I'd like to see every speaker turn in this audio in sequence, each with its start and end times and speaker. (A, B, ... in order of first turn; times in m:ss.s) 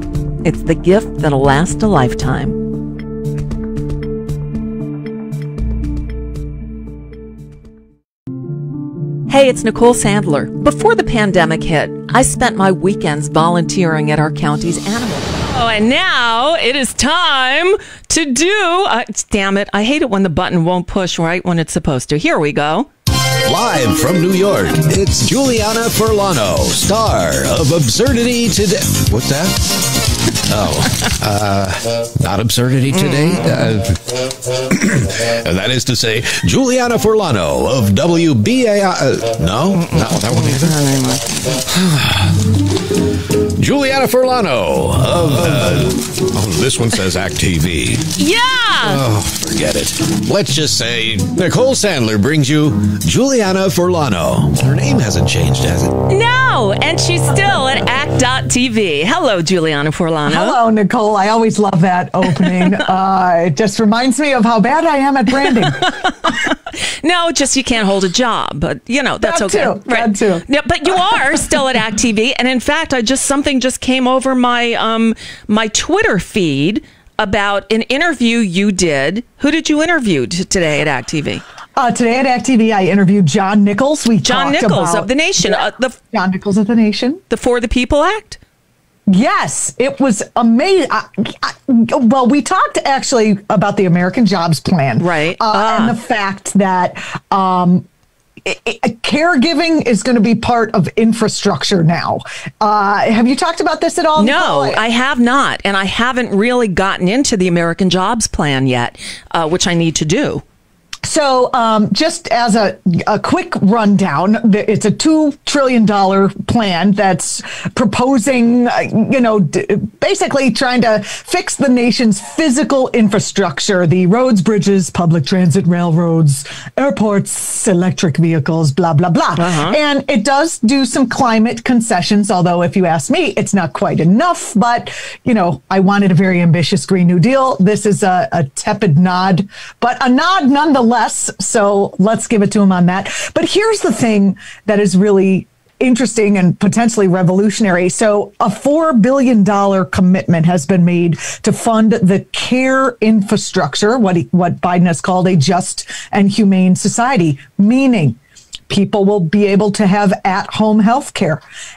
0:00.4-0:02.6 A
0:09.3-0:22.9 A
0:23.4-0:40.8 B
0:32.9-0:33.4 A
0:39.7-0:41.3 A
0:41.5-0:42.5 B
0:43.6-0:48.1 B
0:48.2-0:49.0 A
0:48.8-0:56.0 B
0:56.1-1:00.6 A
1:00.3-1:05.9 C
1:05.8-1:21.4 A
1:09.2-1:10.4 C
1:21.8-1:27.2 C
1:24.2-1:26.0 A
1:27.3-1:28.4 A
1:29.1-1:37.8 C
1:35.0-1:35.9 A
1:38.4-1:44.8 C
1:44.2-1:50.4 A
1:51.0-2:38.2 C
2:09.4-2:09.8 A
2:38.7-2:41.4 C